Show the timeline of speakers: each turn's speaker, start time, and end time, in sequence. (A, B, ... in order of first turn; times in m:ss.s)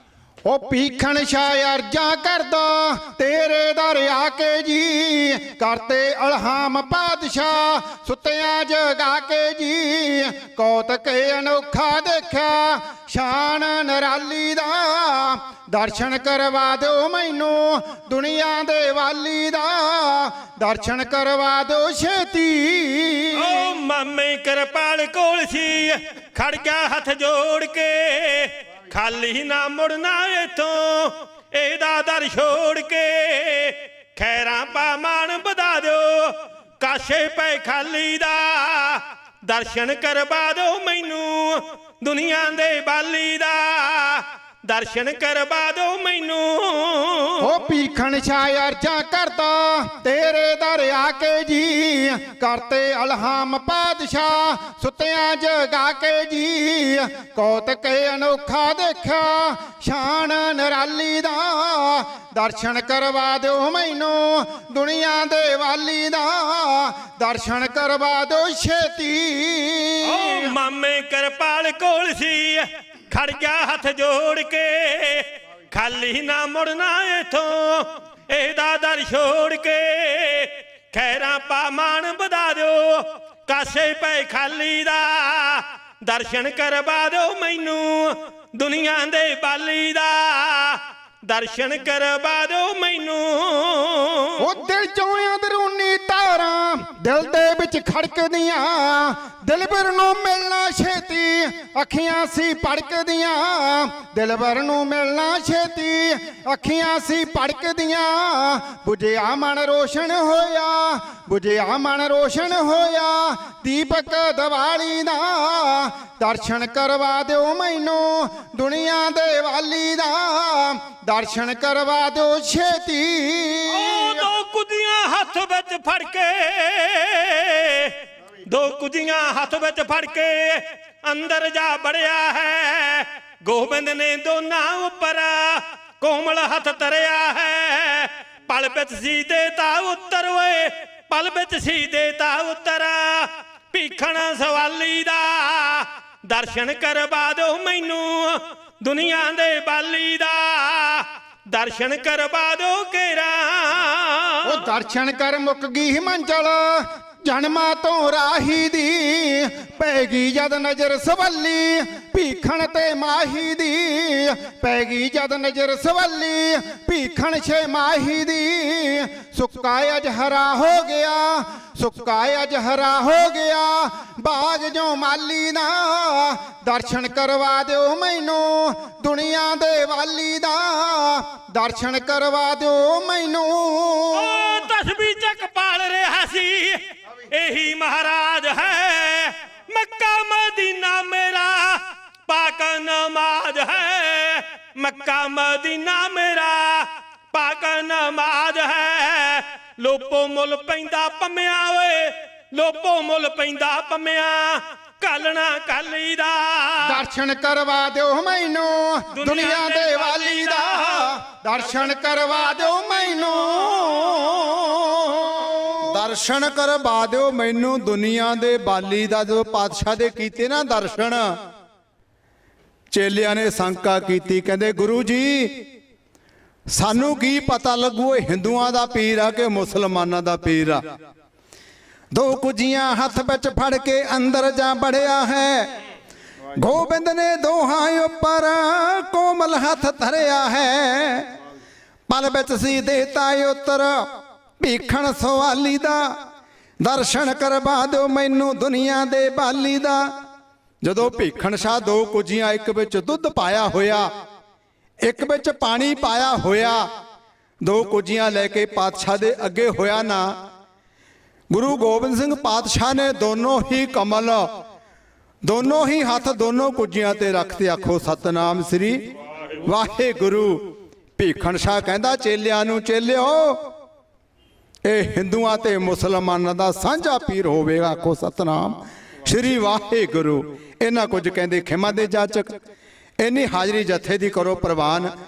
0:00.4-0:23.7 A
0:23.3-0:47.5 B
0:47.4-1:10.5 A
1:10.0-1:34.4 B
1:34.4-2:04.3 A
2:03.7-2:08.0 B
2:08.5-2:34.6 B
2:34.4-3:04.6 A
3:04.1-3:27.0 B
3:26.8-3:35.8 A
3:29.1-3:32.0 B
3:32.6-3:34.5 B
3:35.9-3:41.3 C
3:42.9-3:45.6 C
3:46.7-3:50.8 C
3:52.1-3:55.8 C
3:56.6-4:01.3 C
4:02.1-4:04.1 C
4:04.6-4:06.2 C
4:06.8-4:10.1 C
4:10.8-4:14.1 C
4:15.0-4:16.9 C
4:17.6-4:20.3 C
4:21.5-4:24.5 C
4:25.4-4:29.0 C
4:29.6-4:33.7 C
4:34.8-4:42.5 C
4:43.2-4:45.1 C